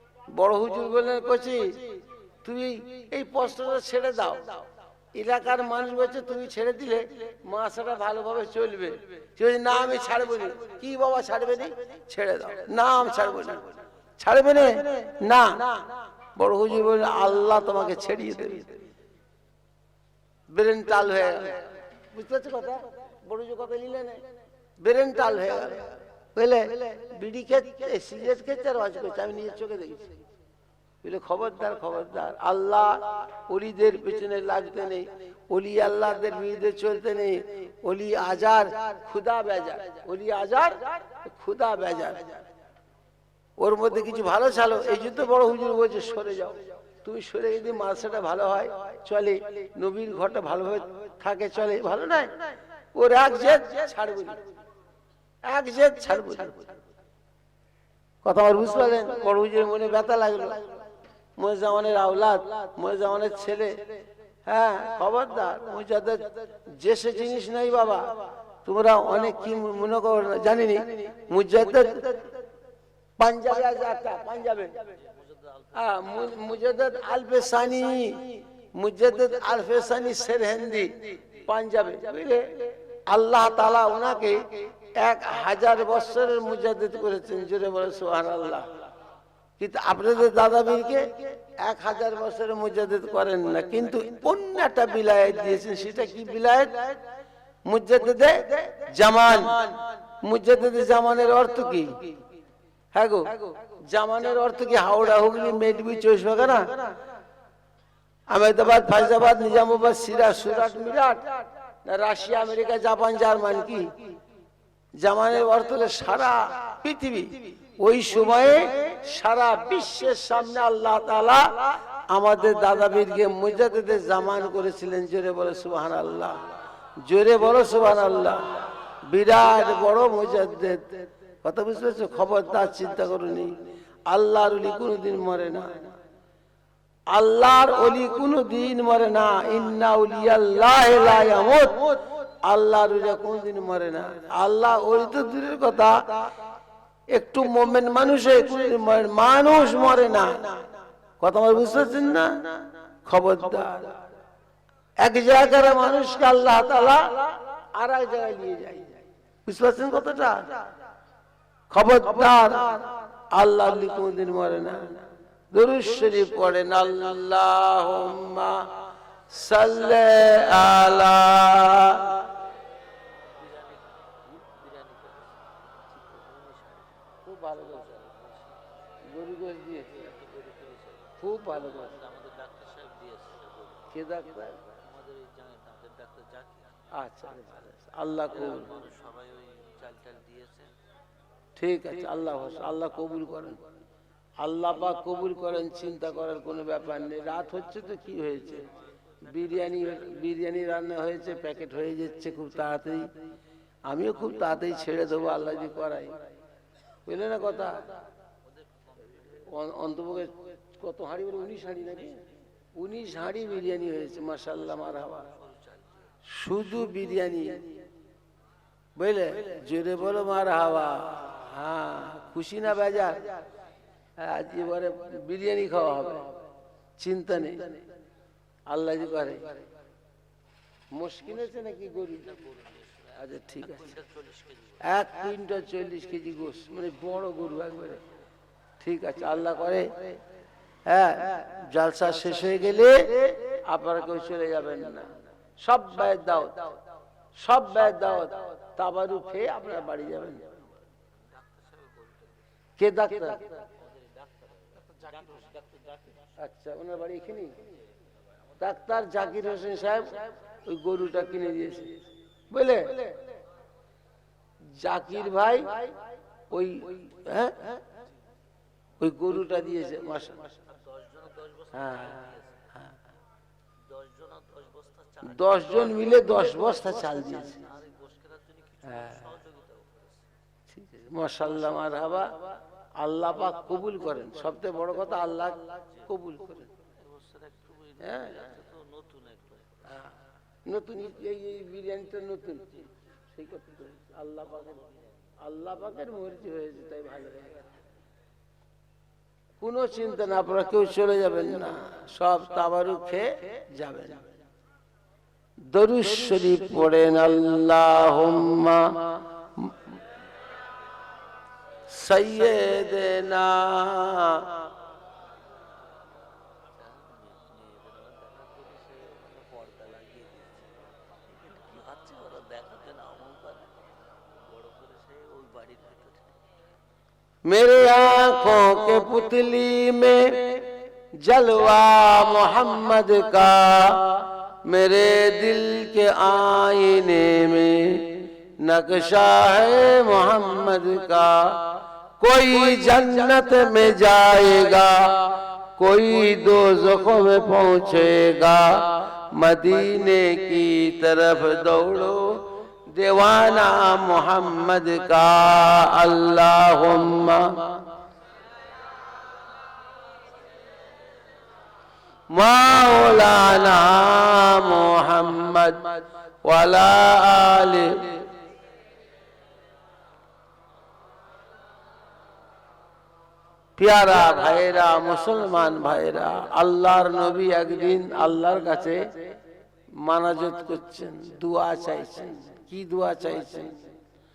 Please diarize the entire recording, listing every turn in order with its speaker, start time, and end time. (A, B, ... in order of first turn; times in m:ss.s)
0:00.3-0:04.6 A
0:05.1-0:18.9 A
0:20.5-0:24.2 A
0:24.8-0:30.2 A
0:31.0-0:42.4 A
0:43.6-0:54.4 A
0:55.4-0:56.7 A
0:58.2-1:00.8 A
1:01.4-1:03.9 A
1:04.5-1:12.4 A
1:13.2-1:15.0 A
1:15.7-1:28.9 A
1:29.6-1:37.0 A
1:37.6-1:42.0 A
1:42.9-1:47.0 A
1:48.3-1:54.1 A
1:54.9-2:15.9 A
2:17.1-2:26.3 A
2:27.1-2:30.7 A
2:31.2-2:34.0 A
2:35.0-2:40.6 A
2:41.7-2:52.3 A
2:53.4-2:56.9 B
2:57.2-2:58.1 A
2:59.0-3:00.2 A
3:00.0-3:01.2 B
3:01.2-3:02.0 A
3:01.9-3:03.9 B
3:03.9-3:04.6 A
3:04.6-3:06.9 B
3:06.9-3:08.8 A
3:08.6-3:10.7 B
3:11.6-3:13.6 A
3:14.4-3:18.7 A
3:19.2-3:23.1 A
3:23.9-3:26.2 A
3:27.0-3:27.9 A
3:29.4-3:35.3 A
3:36.2-3:37.8 A
3:39.0-3:43.4 A
3:44.2-3:46.4 A
3:47.0-3:47.8 A
3:48.7-3:49.6 A
3:50.9-3:52.5 A
3:53.1-3:54.0 A
3:53.8-3:54.8 B
3:54.8-3:58.0 A
3:58.8-4:00.2 A
4:00.8-4:06.8 A
4:07.4-4:10.6 A
4:11.7-4:12.1 B
4:12.8-4:13.6 A
4:13.8-4:16.0 B
4:16.4-4:17.6 A
4:18.6-4:23.2 A
4:24.7-4:26.0 A
4:26.5-4:27.8 A
4:29.0-4:30.5 A
4:30.8-4:32.4 B
4:31.7-4:32.9 A
4:33.9-4:35.2 B
4:35.2-4:37.7 A
4:37.7-4:40.2 B
4:38.8-4:39.3 A
4:40.7-4:46.7 A
4:47.0-4:49.9 B
4:48.0-4:48.5 A
4:50.6-4:57.7 A
4:59.6-5:04.3 A
5:05.6-5:09.8 A
5:11.9-5:14.7 A
5:16.7-5:20.8 B
5:21.3-5:26.3 B
5:27.5-5:57.8 A
6:02.3-6:08.3 A
6:13.8-6:19.2 A
6:20.0-6:23.8 A